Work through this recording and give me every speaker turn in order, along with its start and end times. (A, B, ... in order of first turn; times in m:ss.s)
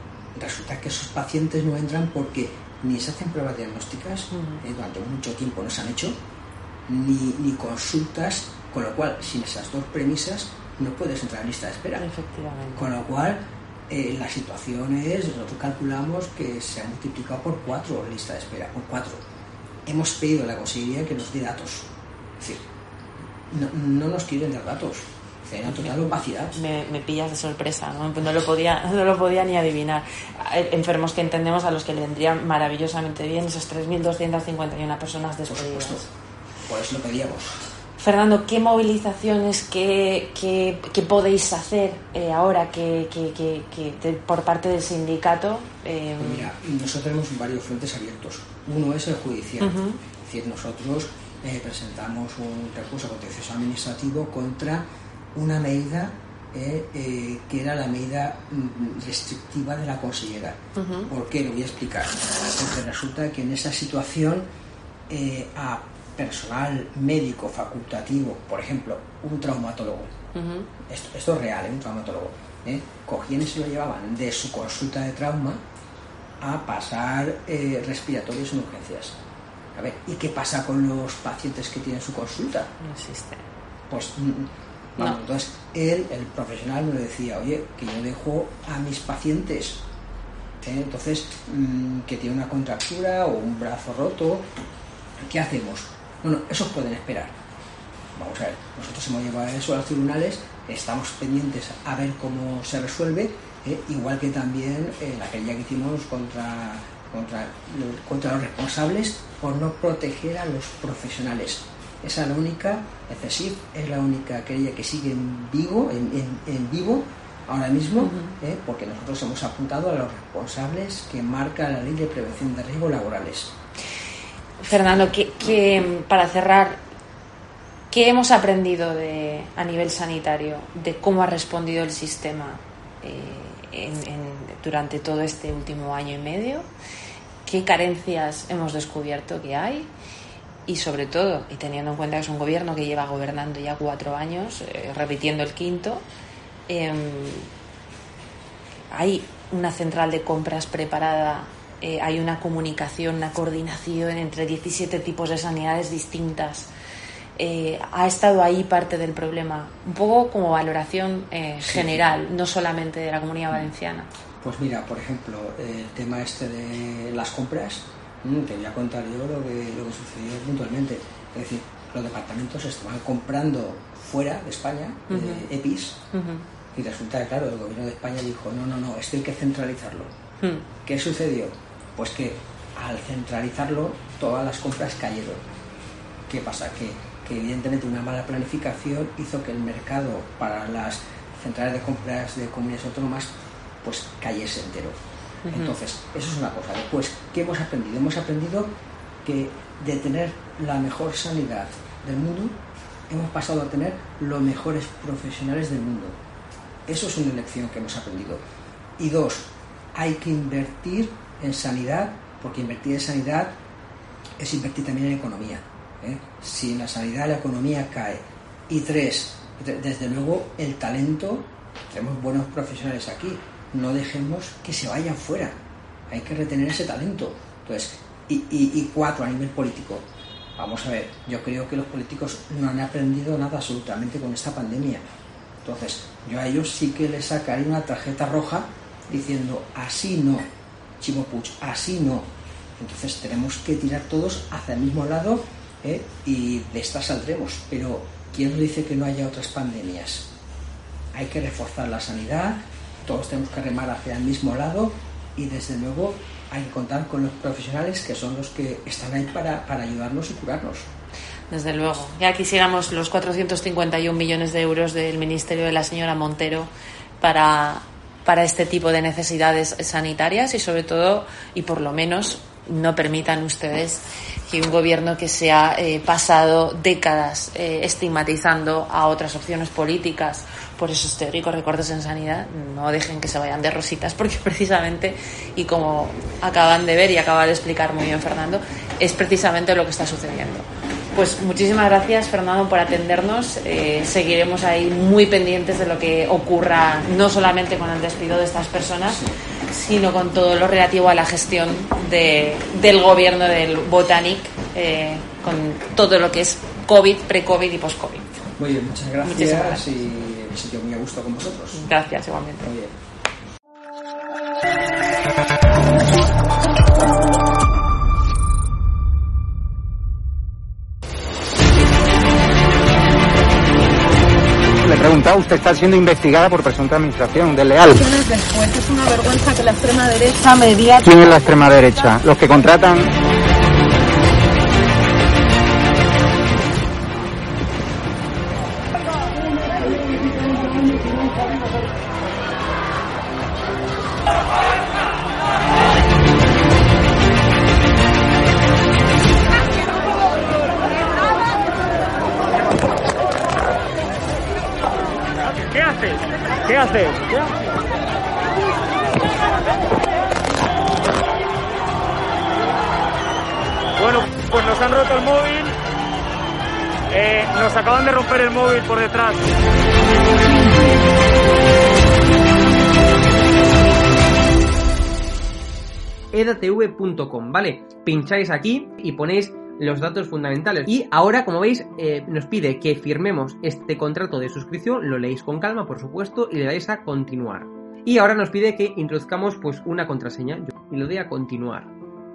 0:00.3-0:06.2 A
0:04.3-0:04.6 B
0:06.9-0:12.1 A
0:12.0-0:12.8 B
0:12.7-0:19.2 A
0:19.8-0:22.6 A
0:23.5-0:26.6 A
0:25.7-0:36.0 B
0:35.5-0:36.1 A
0:36.6-0:37.6 A
0:38.0-0:46.5 B
0:46.2-1:04.5 A
0:49.6-0:50.0 B
1:00.8-1:01.1 B
1:05.1-1:10.1 A
1:10.3-1:10.7 B
1:10.8-1:15.6 A
1:16.4-1:19.2 A
1:19.7-1:22.7 A
1:22.8-1:23.4 B
1:23.9-1:29.8 A
1:30.6-1:34.5 A
1:35.2-1:37.4 A
1:38.1-2:03.6 A
1:58.0-1:58.4 B
2:04.6-2:06.8 B
2:07.9-2:16.7 B
2:17.4-2:19.9 B
2:20.7-2:26.0 B
2:26.7-2:27.5 B
2:28.9-2:36.7 B
2:37.4-2:44.1 B
2:41.6-2:42.0 A
2:44.4-2:56.0 A
2:55.1-2:55.5 B
2:56.1-2:56.4 B
2:56.7-3:00.1 A
3:00.4-3:00.6 B
3:00.8-3:05.4 A
3:06.3-3:15.0 A
3:15.4-3:15.8 B
3:15.5-3:26.2 A
3:26.9-3:28.4 A
3:29.0-3:33.6 A
3:34.4-3:45.6 A
3:46.1-3:55.0 A
3:55.6-4:00.5 A
4:01.0-4:10.3 A
4:11.1-4:20.9 A
4:21.5-5:08.4 B
4:59.0-4:59.4 A
5:08.6-5:11.8 A
5:09.2-5:10.0 B
5:11.7-5:12.7 B
5:12.6-5:12.9 A
5:24.8-5:28.0 C
5:27.9-5:30.6 D
5:30.4-5:31.0 B
5:31.0-5:33.1 C
5:55.8-5:56.0 E
6:04.5-6:05.7 E
6:07.3-6:09.3 E
6:16.3-6:31.9 F